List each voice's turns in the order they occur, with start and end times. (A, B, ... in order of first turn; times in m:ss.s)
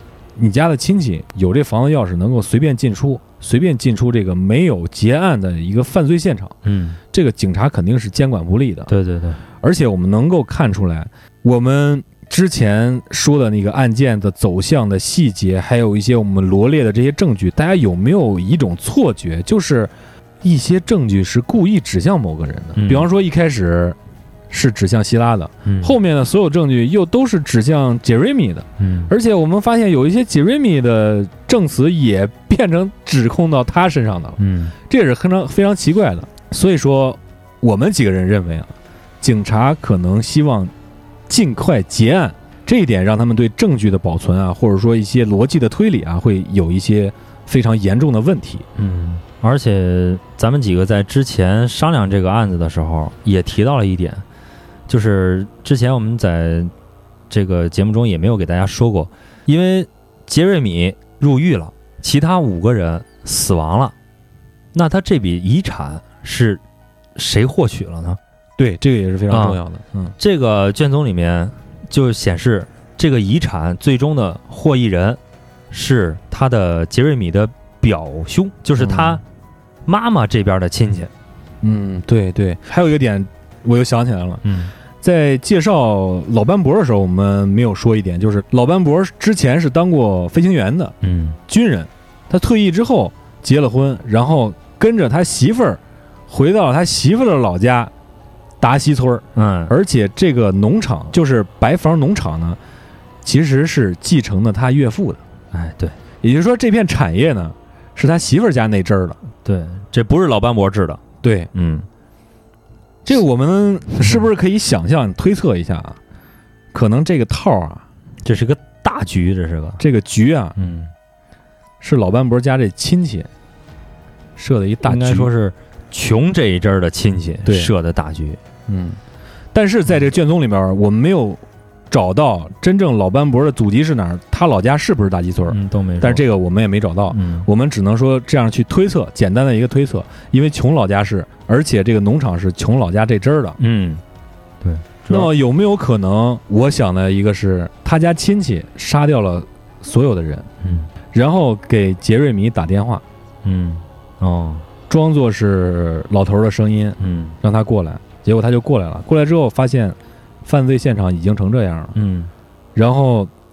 0:00.4-0:06.6 A
0:06.6-0:07.0 B
0:07.1-0:08.9 A
0:08.9-0:09.4 B
0:09.6-0:24.0 A
0:22.8-0:23.1 B
0:24.5-0:40.7 A
0:25.6-0:25.9 B
0:28.8-0:29.1 B
0:34.4-0:34.7 B
0:41.3-0:48.6 A
0:48.8-0:54.2 B
0:54.9-0:56.7 B
0:57.3-1:03.9 B
1:04.7-1:06.6 B
1:07.2-1:08.2 B
1:08.6-1:10.1 A
1:09.3-1:09.6 B
1:10.2-1:15.2 B
1:15.7-1:19.2 B
1:18.8-1:19.2 A
1:19.8-1:21.1 B
1:21.6-1:24.4 A
1:24.4-1:24.7 B
1:25.0-1:30.9 A
1:31.0-1:31.4 B
1:31.5-1:37.9 A
1:38.6-1:42.6 A
1:39.3-1:39.7 B
1:43.2-1:45.2 A
1:45.5-1:46.0 B
1:46.2-1:49.2 A
1:49.4-1:51.0 B
1:51.2-1:51.5 A
1:51.5-1:51.8 B
1:53.0-1:56.0 A
1:56.7-1:57.8 A
1:58.2-1:59.8 B
1:59.8-2:00.6 A
2:00.6-2:00.9 B
2:01.8-2:03.3 A
2:04.4-2:05.3 A
2:04.8-2:08.4 B
2:07.4-2:07.7 A
2:08.7-2:09.0 A
2:09.5-2:23.6 A
2:15.5-2:16.2 B
2:17.1-2:17.5 B
2:23.6-2:24.0 B
2:24.6-2:25.3 B
2:25.1-2:30.5 A
2:30.6-2:30.9 B
2:31.1-2:33.0 A
2:33.4-2:34.6 B
2:34.9-2:41.9 A
2:37.0-2:37.3 B
2:41.9-2:42.3 B
2:42.7-2:43.3 A